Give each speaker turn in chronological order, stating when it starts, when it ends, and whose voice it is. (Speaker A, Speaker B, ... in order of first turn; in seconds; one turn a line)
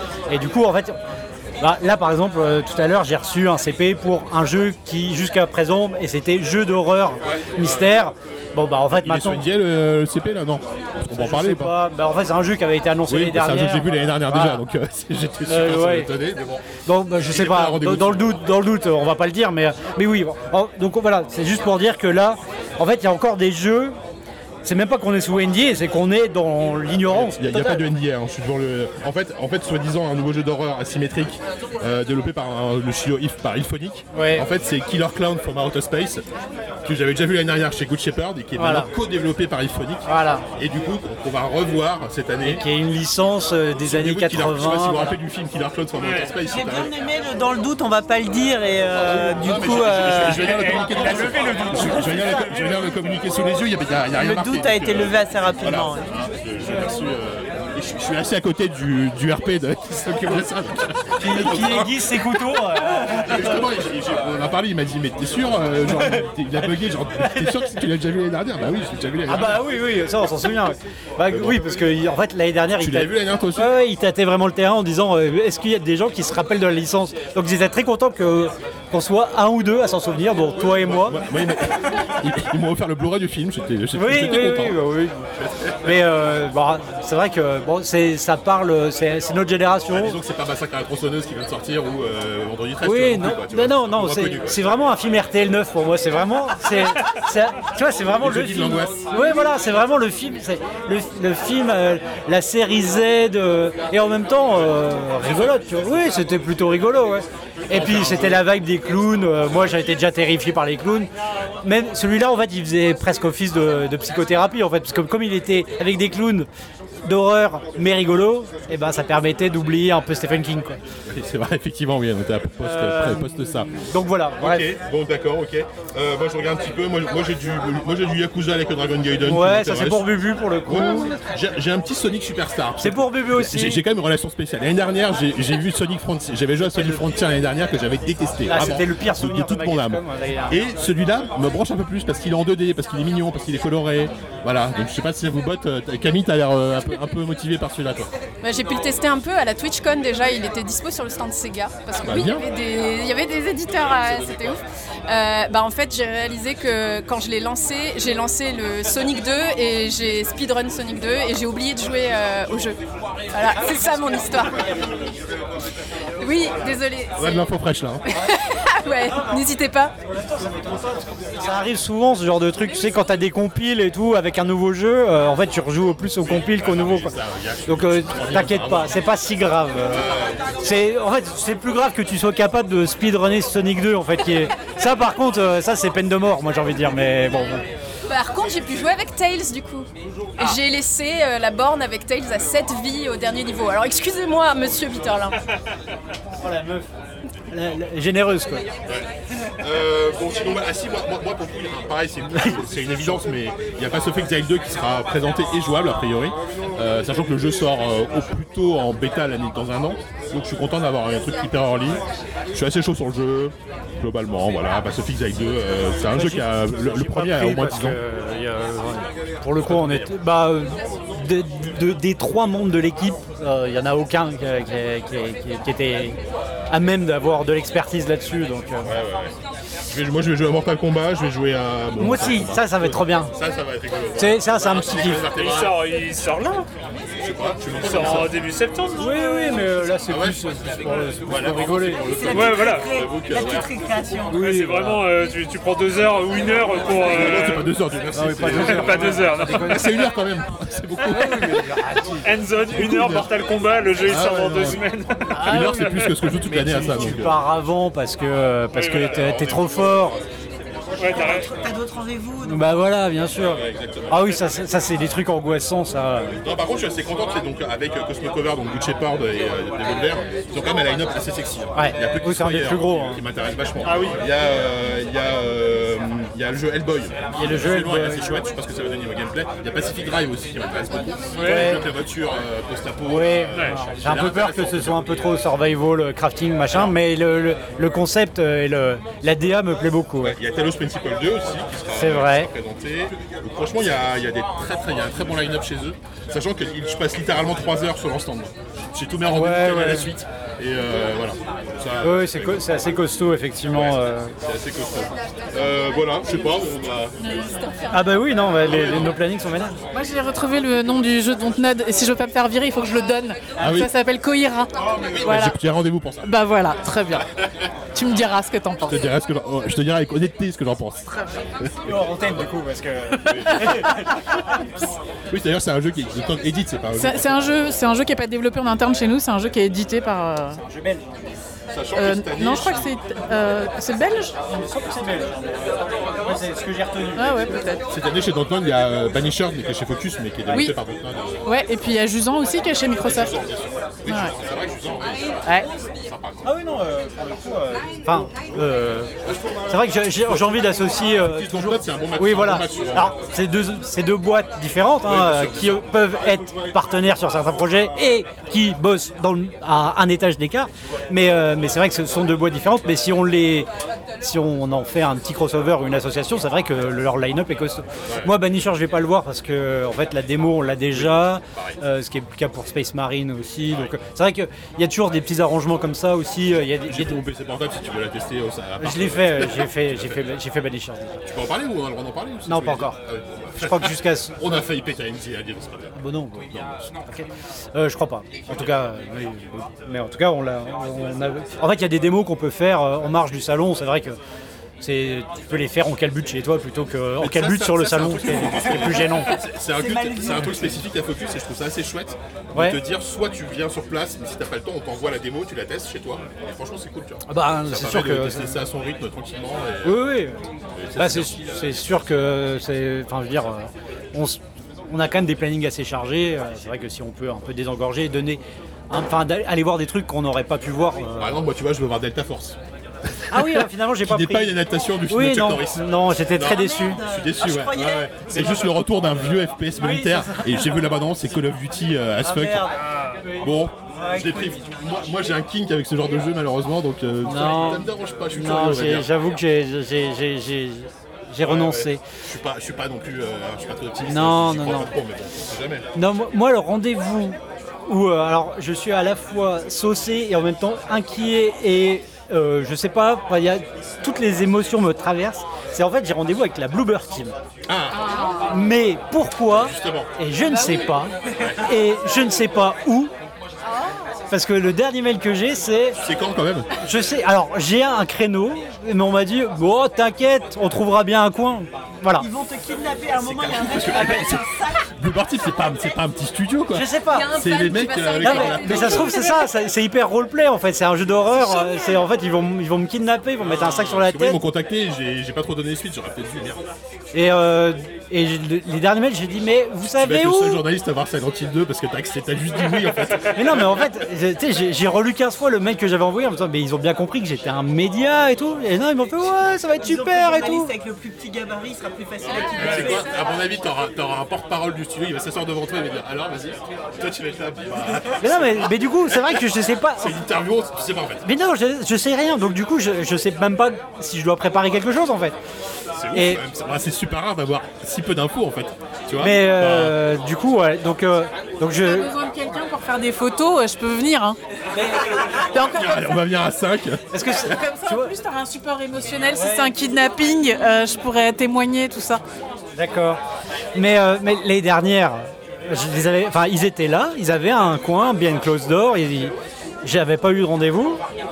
Speaker A: 0.3-1.0
Speaker A: 1.6-9.4
Speaker B: 7.2-7.9
Speaker B: 8.9-11.7
Speaker A: 11.1-14.6
Speaker B: 13.1-16.6
Speaker A: 15.5-16.1
Speaker A: 16.8-23.9
Speaker B: 17.2-18.4
Speaker A: 24.6-27.8
Speaker B: 27.1-36.2
Speaker A: 34.1-34.5
Speaker B: 36.8-42.6
Speaker A: 38.6-38.9
Speaker A: 40.0-40.4
Speaker A: 42.4-45.1
Speaker B: 43.8-46.9
Speaker C: 46.0-46.3
Speaker D: 46.5-51.8
Speaker B: 48.9-69.6
Speaker C: 50.4-52.7
Speaker A: 51.6-52.3
Speaker D: 54.2-56.2
Speaker A: 61.2-63.7
Speaker A: 65.9-66.2
Speaker A: 67.2-67.8
Speaker A: 69.3-81.2
Speaker B: 71.3-71.7
Speaker B: 72.8-73.7
Speaker B: 80.5-84.8
Speaker A: 83.9-85.3
Speaker B: 85.4-86.1
Speaker A: 85.8-90.2
Speaker B: 89.9-94.7
Speaker A: 92.8-111.1
Speaker B: 98.2-99.1
Speaker B: 104.4-106.4
Speaker B: 107.7-108.5
Speaker A: 111.6-116.5
Speaker A: 117.0-120.8
Speaker B: 121.1-123.8
Speaker A: 122.6-124.7
Speaker B: 124.4-130.1
Speaker A: 129.2-131.2
Speaker B: 130.6-148.1
Speaker A: 132.8-133.8
Speaker A: 138.5-140.7
Speaker E: 148.4-162.8
Speaker B: 152.0-152.4
Speaker E: 163.3-164.7
Speaker A: 163.6-164.7
Speaker E: 166.2-167.5
Speaker B: 167.2-168.0
Speaker E: 168.0-169.9
Speaker A: 169.1-169.4
Speaker A: 170.0-177.1
Speaker B: 176.2-179.0
Speaker A: 177.7-180.1
Speaker B: 179.8-180.7
Speaker A: 180.6-187.6
Speaker E: 188.1-195.3
Speaker A: 196.4-196.9
Speaker A: 197.5-198.7
Speaker B: 199.6-212.0
Speaker A: 202.3-203.2
Speaker B: 212.5-218.0
Speaker A: 216.1-226.2
Speaker B: 219.6-220.1
Speaker A: 226.7-228.9
Speaker B: 228.8-229.3
Speaker B: 229.9-235.8
Speaker A: 232.0-233.3
Speaker A: 234.2-235.3
Speaker C: 235.3-236.7
Speaker B: 237.2-238.4
Speaker C: 237.7-239.8
Speaker A: 239.0-242.2
Speaker B: 240.1-243.7
Speaker D: 242.0-244.4
Speaker C: 242.3-242.9
Speaker A: 244.3-245.0
Speaker C: 244.3-247.7
Speaker B: 246.9-251.8
Speaker A: 248.1-249.8
Speaker C: 248.4-249.9
Speaker A: 251.0-252.3
Speaker C: 252.2-256.1
Speaker B: 252.7-253.4
Speaker B: 254.0-254.8
Speaker A: 255.4-255.8
Speaker B: 255.4-257.4
Speaker A: 256.4-260.2
Speaker C: 258.7-259.2
Speaker B: 259.0-260.2
Speaker C: 261.0-261.5
Speaker D: 261.0-262.6
Speaker A: 262.4-266.4
Speaker B: 263.3-264.6
Speaker B: 266.4-285.4
Speaker A: 271.7-273.2
Speaker C: 273.8-274.2
Speaker A: 277.3-278.4
Speaker C: 281.3-281.7
Speaker A: 281.4-281.8
Speaker A: 283.1-290.4
Speaker B: 286.7-287.0
Speaker B: 290.2-302.8
Speaker A: 291.9-292.5
Speaker A: 299.3-300.1
Speaker A: 302.0-304.3
Speaker B: 303.7-307.3
Speaker F: 307.2-307.9
Speaker A: 307.9-309.8
Speaker B: 308.6-309.2
Speaker F: 309.9-315.6
Speaker B: 313.6-313.9
Speaker B: 314.8-316.4
Speaker F: 316.2-317.3
Speaker F: 317.9-319.0
Speaker B: 318.8-321.1
Speaker F: 321.1-321.3
Speaker B: 321.6-322.5
Speaker A: 321.8-324.2
Speaker F: 323.2-323.9
Speaker B: 323.2-323.7
Speaker B: 325.3-327.7
Speaker F: 326.9-330.6
Speaker A: 330.6-331.1
Speaker B: 331.7-332.9
Speaker F: 332.0-334.3
Speaker A: 334.5-337.5
Speaker F: 337.2-337.8
Speaker B: 337.9-341.4
Speaker F: 341.4-343.3
Speaker B: 343.0-346.5
Speaker A: 346.4-349.1
Speaker B: 349.3-353.1
Speaker A: 349.7-363.7
Speaker B: 355.0-356.4
Speaker A: 364.2-377.2
Speaker B: 368.1-368.3
Speaker B: 370.9-371.8
Speaker B: 376.8-380.3
Speaker A: 378.8-381.2
Speaker B: 381.2-386.0
Speaker A: 382.5-383.0
Speaker A: 383.6-384.4
Speaker A: 385.9-386.5
Speaker B: 386.5-387.1
Speaker A: 387.1-394.2
Speaker B: 388.5-388.9
Speaker A: 394.8-399.4
Speaker B: 397.2-410.2
Speaker D: 399.3-400.8
Speaker A: 402.5-402.8
Speaker A: 407.3-408.6
Speaker A: 409.8-410.4
Speaker B: 410.7-411.6
Speaker A: 410.9-421.4
Speaker B: 421.2-432.7
Speaker A: 423.3-427.0
Speaker D: 426.4-428.7
Speaker A: 429.8-430.9
Speaker A: 432.2-434.6
Speaker C: 432.7-433.2
Speaker B: 433.4-439.1
Speaker A: 437.2-442.0
Speaker B: 441.4-445.9
Speaker A: 444.0-444.9
Speaker A: 445.9-457.3
Speaker B: 457.7-458.2
Speaker E: 457.9-458.6
Speaker A: 458.4-463.1
Speaker B: 459.5-460.1
Speaker B: 461.4-461.7
Speaker E: 463.6-464.1
Speaker A: 464.3-466.0
Speaker B: 466.0-466.7
Speaker A: 466.8-472.3
Speaker D: 472.2-474.8
Speaker B: 473.1-479.1
Speaker A: 476.7-477.3
Speaker E: 477.1-479.6
Speaker A: 478.2-484.4
Speaker E: 481.3-482.1
Speaker B: 483.4-486.6
Speaker A: 487.1-490.6
Speaker B: 490.0-493.9
Speaker A: 493.3-500.7
Speaker D: 499.8-503.3
Speaker B: 502.2-511.2
Speaker E: 502.3-503.3
Speaker A: 508.2-510.2
Speaker A: 511.2-515.4
Speaker B: 515.9-520.0
Speaker A: 516.1-516.4
Speaker A: 519.2-522.1
Speaker F: 521.8-524.4
Speaker A: 524.7-525.3
Speaker F: 525.4-526.1
Speaker B: 525.5-527.6
Speaker A: 527.1-528.1
Speaker F: 527.4-532.2
Speaker A: 529.3-529.8
Speaker A: 532.7-533.2
Speaker A: 533.7-541.0